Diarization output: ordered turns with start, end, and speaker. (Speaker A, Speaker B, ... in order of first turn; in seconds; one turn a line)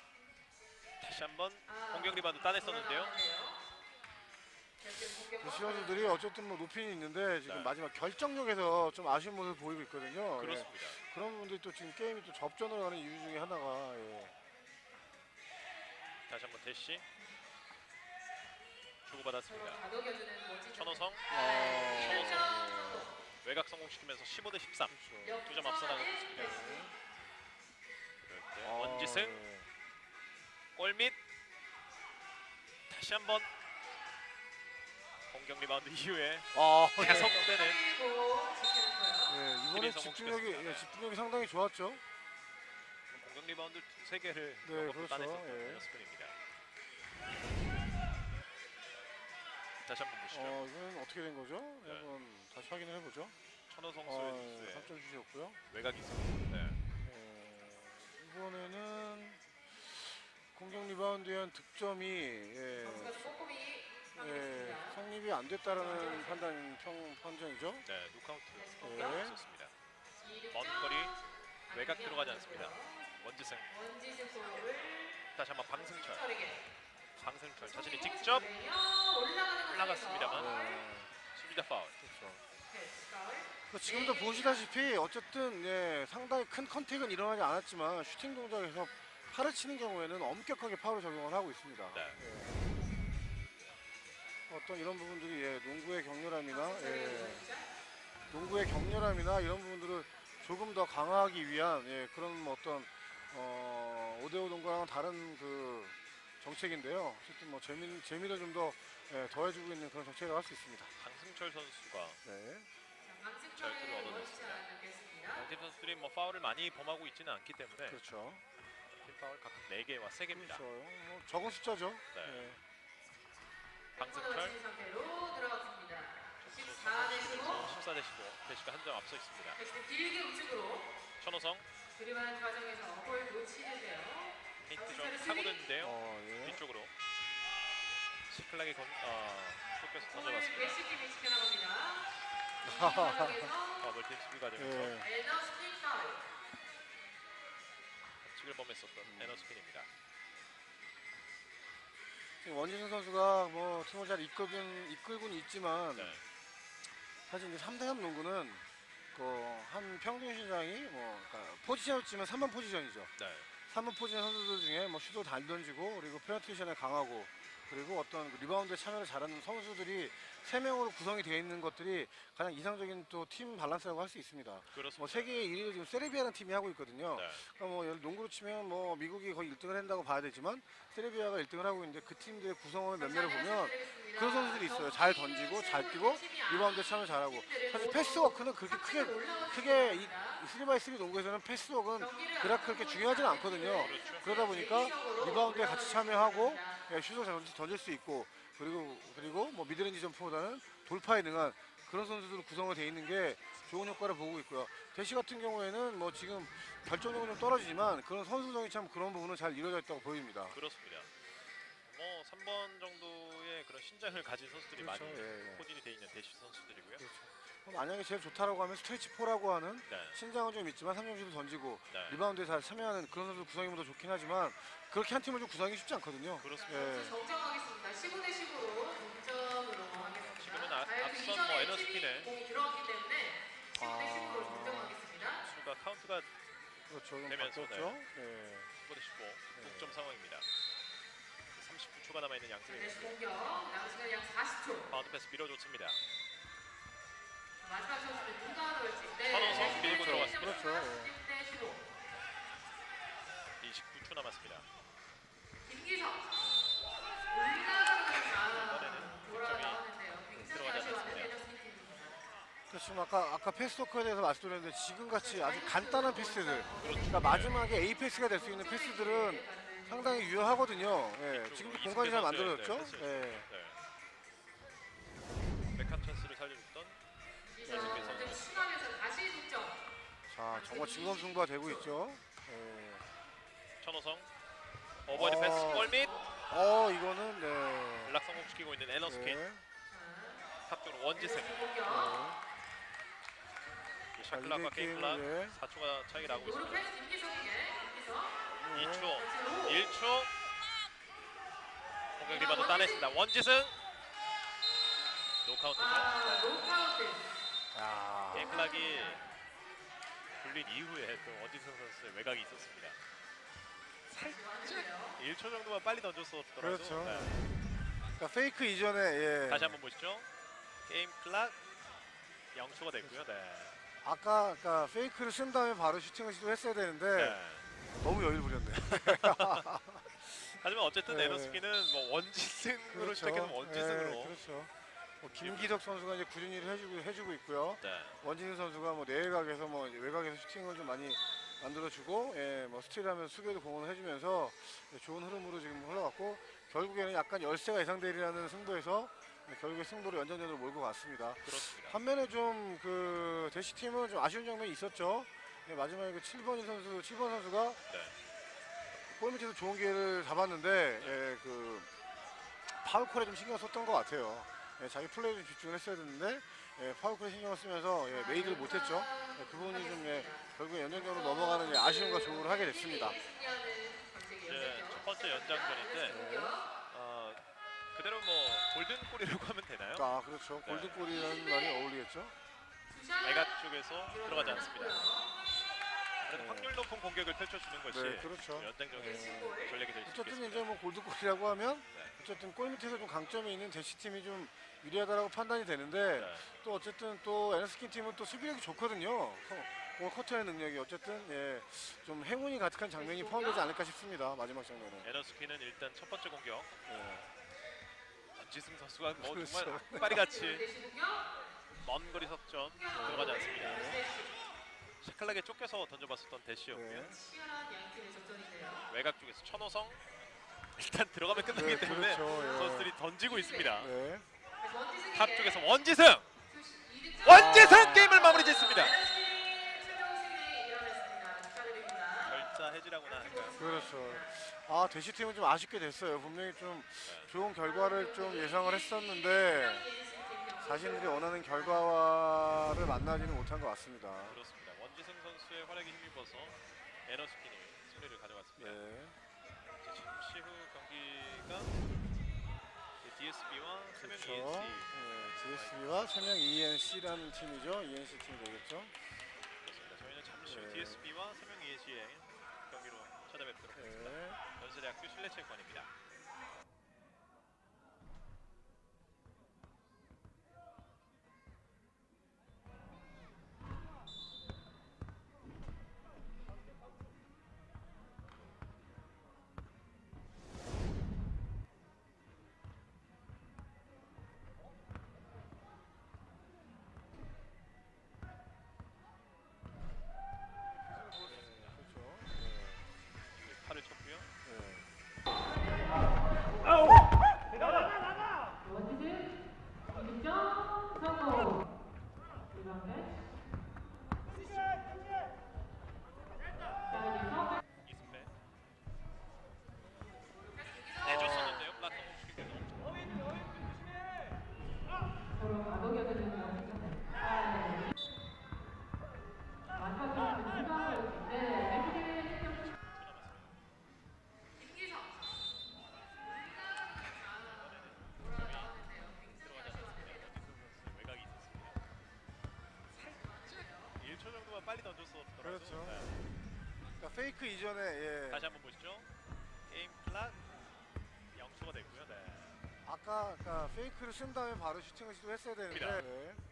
Speaker A: 1.0-3.1
Speaker B: 1.7-3.6
Speaker B: 4.8-6.2
Speaker C: 5.4-14.3
Speaker A: 7.5-7.7
Speaker A: 10.4-11.0
Speaker A: 16.3-17.1
Speaker A: 19.0-19.8
Speaker B: 19.5-23.1
Speaker A: 20.7-21.3
Speaker C: 21.3-23.1
Speaker A: 21.9-22.6
Speaker A: 23.4-26.6
Speaker C: 24.9-25.4
Speaker B: 25.2-26.9
Speaker C: 26.4-26.9
Speaker A: 28.3-29.4
Speaker C: 28.6-29.7
Speaker A: 30.8-31.2
Speaker A: 32.9-33.5
Speaker A: 35.3-37.9
Speaker C: 36.5-37.5
Speaker B: 37.0-39.4
Speaker C: 39.3-42.0
Speaker A: 39.7-40.9
Speaker A: 43.1-46.4
Speaker C: 44.6-45.9
Speaker A: 49.8-50.6
Speaker C: 50.3-53.4
Speaker A: 53.7-55.0
Speaker C: 54.1-55.6
Speaker A: 55.7-56.8
Speaker C: 57.0-63.3
Speaker B: 62.8-65.0
Speaker C: 64.2-67.8
Speaker B: 65.7-66.4
Speaker A: 67.8-69.7
Speaker B: 68.6-69.3
Speaker C: 68.8-69.4
Speaker B: 70.2-73.1
Speaker A: 70.5-71.2
Speaker A: 71.7-73.7
Speaker B: 73.7-76.7
Speaker A: 75.3-76.2
Speaker A: 77.2-78.5
Speaker B: 77.6-80.8
Speaker A: 79.7-80.5
Speaker C: 80.3-81.1
Speaker A: 81.3-82.0
Speaker C: 82.0-82.4
Speaker B: 82.7-84.7
Speaker C: 83.7-92.6
Speaker A: 91.9-92.2
Speaker C: 94.5-97.5
Speaker B: 96.5-97.7
Speaker C: 98.3-110.9
Speaker A: 111.0-112.2
Speaker C: 112.2-112.7
Speaker B: 113.0-115.5
Speaker A: 113.6-114.6
Speaker A: 115.3-118.0
Speaker C: 117.9-118.4
Speaker A: 118.9-120.7
Speaker C: 120.3-122.6
Speaker A: 122.1-122.5
Speaker A: 124.0-124.5
Speaker B: 124.0-127.7
Speaker A: 126.4-129.6
Speaker C: 127.3-127.8
Speaker B: 129.6-131.0
Speaker A: 131.2-131.7
Speaker B: 132.0-135.6
Speaker A: 134.6-136.9
Speaker C: 135.8-136.6
Speaker A: 138.3-140.8
Speaker B: 140.1-143.9
Speaker C: 142.6-143.5
Speaker A: 143.8-145.0
Speaker C: 144.6-145.1
Speaker B: 145.0-146.3
Speaker A: 148.2-149.9
Speaker C: 149.1-149.5
Speaker C: 152.4-156.2
Speaker A: 155.9-156.2
Speaker C: 157.3-163.1
Speaker A: 163.2-163.5
Speaker C: 163.7-210.6
Speaker A: 174.7-175.5
Speaker A: 177.1-177.4
Speaker B: 183.0-190.4
Speaker B: 192.0-196.8
Speaker A: 193.7-194.6
Speaker A: 210.5-211.1
Speaker A: 211.9-217.1
Speaker C: 214.8-215.7
Speaker C: 217.0-227.2
Speaker A: 219.9-220.2
Speaker A: 221.9-222.2
Speaker A: 226.4-226.9
Speaker B: 226.6-235.4
Speaker A: 230.2-232.3
Speaker C: 233.8-235.0
Speaker A: 235.2-236.3
Speaker C: 236.9-238.7
Speaker A: 237.3-238.0
Speaker A: 238.8-240.5
Speaker C: 239.6-240.0
Speaker A: 241.6-243.1
Speaker B: 242.7-244.9
Speaker A: 244.9-246.0
Speaker B: 247.6-251.8
Speaker A: 249.3-250.7
Speaker C: 249.5-251.1
Speaker A: 253.6-254.7
Speaker B: 255.7-256.3
Speaker C: 256.4-256.9
Speaker B: 257.3-262.2
Speaker A: 258.3-259.8
Speaker C: 260.4-260.6
Speaker A: 260.4-261.4
Speaker C: 262.7-273.5
Speaker B: 265.1-270.8
Speaker A: 266.8-267.7
Speaker A: 271.3-273.8
Speaker A: 275.7-277.0
Speaker B: 277.4-279.8
Speaker C: 277.6-278.4
Speaker A: 277.7-278.7
Speaker C: 280.3-283.1
Speaker B: 280.5-281.9
Speaker A: 283.8-284.3
Speaker A: 285.0-286.1
Speaker C: 285.1-288.2
Speaker B: 285.6-286.4
Speaker A: 288.1-289.4
Speaker C: 289.1-289.6
Speaker B: 289.9-290.5
Speaker A: 290.7-291.6
Speaker B: 291.2-292.2
Speaker C: 291.9-292.4
Speaker A: 294.1-296.9
Speaker C: 294.3-295.6
Speaker B: 296.2-298.5
Speaker C: 298.5-299.2
Speaker A: 298.7-300.3
Speaker B: 299.2-299.9
Speaker A: 302.2-303.8
Speaker B: 302.2-303.1
Speaker A: 305.4-306.6
Speaker B: 305.8-307.2
Speaker C: 307.7-308.5
Speaker A: 308.3-309.2
Speaker B: 308.3-309.2
Speaker A: 310.4-313.0
Speaker A: 314.1-317.4
Speaker B: 314.2-315.2
Speaker C: 316.6-317.6
Speaker C: 318.2-319.8
Speaker A: 319.5-320.3
Speaker A: 320.9-321.6
Speaker A: 322.5-323.8
Speaker C: 324.0-327.4
Speaker A: 327.1-327.7
Speaker C: 328.0-330.0
Speaker A: 328.9-329.7
Speaker A: 330.2-334.4
Speaker C: 331.1-331.6
Speaker C: 332.9-357.8
Speaker A: 335.3-335.8
Speaker A: 337.8-338.2
Speaker A: 351.4-352.0
Speaker A: 357.9-358.1
Speaker C: 359.1-361.9
Speaker C: 362.7-373.2
Speaker B: 368.1-376.7
Speaker A: 374.4-376.2
Speaker C: 376.1-376.6
Speaker A: 376.9-377.4
Speaker A: 377.9-380.1
Speaker C: 379.9-382.4
Speaker A: 380.6-381.1
Speaker B: 381.1-381.9
Speaker B: 382.9-383.5
Speaker A: 383.2-385.1
Speaker B: 384.1-385.3
Speaker C: 384.3-384.7
Speaker A: 386.2-390.7
Speaker C: 386.3-386.8
Speaker C: 387.9-405.1
Speaker B: 389.0-389.8
Speaker A: 396.2-396.5
Speaker B: 402.9-403.7
Speaker A: 405.0-406.7
Speaker C: 406.9-407.3
Speaker A: 408.4-410.7
Speaker C: 409.2-410.2
Speaker B: 409.9-411.3
Speaker A: 411.8-414.0
Speaker B: 412.7-414.3
Speaker C: 412.9-414.0
Speaker A: 415.0-417.1
Speaker C: 416.7-417.2
Speaker B: 416.9-418.9
Speaker A: 418.9-420.0
Speaker A: 420.8-423.9
Speaker B: 421.3-423.8
Speaker C: 421.5-422.9
Speaker C: 423.8-424.3
Speaker B: 424.6-425.6
Speaker A: 425.1-426.3
Speaker B: 426.5-432.5
Speaker A: 427.2-429.0
Speaker C: 427.3-428.2
Speaker A: 432.2-433.6
Speaker B: 433.0-434.3
Speaker C: 433.6-439.9
Speaker A: 437.1-437.4
Speaker B: 437.6-441.9
Speaker C: 440.6-444.4
Speaker A: 444.2-448.8
Speaker C: 448.6-449.2
Speaker A: 449.8-451.7
Speaker A: 453.0-456.1
Speaker C: 454.0-458.9
Speaker A: 459.6-465.9
Speaker C: 460.4-461.1
Speaker C: 463.7-464.4
Speaker C: 491.1-492.9
Speaker A: 491.2-491.8
Speaker A: 493.3-494.3
Speaker C: 494.4-494.9
Speaker B: 498.6-499.2
Speaker B: 499.9-501.6
Speaker B: 502.5-503.1
Speaker B: 506.9-507.6
Speaker A: 507.8-508.3
Speaker B: 510.3-511.6
Speaker A: 511.0-513.3
Speaker C: 511.1-511.6
Speaker B: 513.0-513.4
Speaker B: 515.4-517.8
Speaker B: 519.8-522.5
Speaker A: 522.3-523.6
Speaker B: 524.6-525.5
Speaker B: 526.2-530.4
Speaker A: 527.3-531.8
Speaker A: 533.0-536.2
Speaker B: 533.0-534.0
Speaker C: 535.4-536.1
Speaker C: 537.0-538.6
Speaker A: 538.3-539.1
Speaker A: 539.7-540.4
Speaker A: 541.3-542.6
Speaker C: 542.8-546.4
Speaker A: 545.7-546.0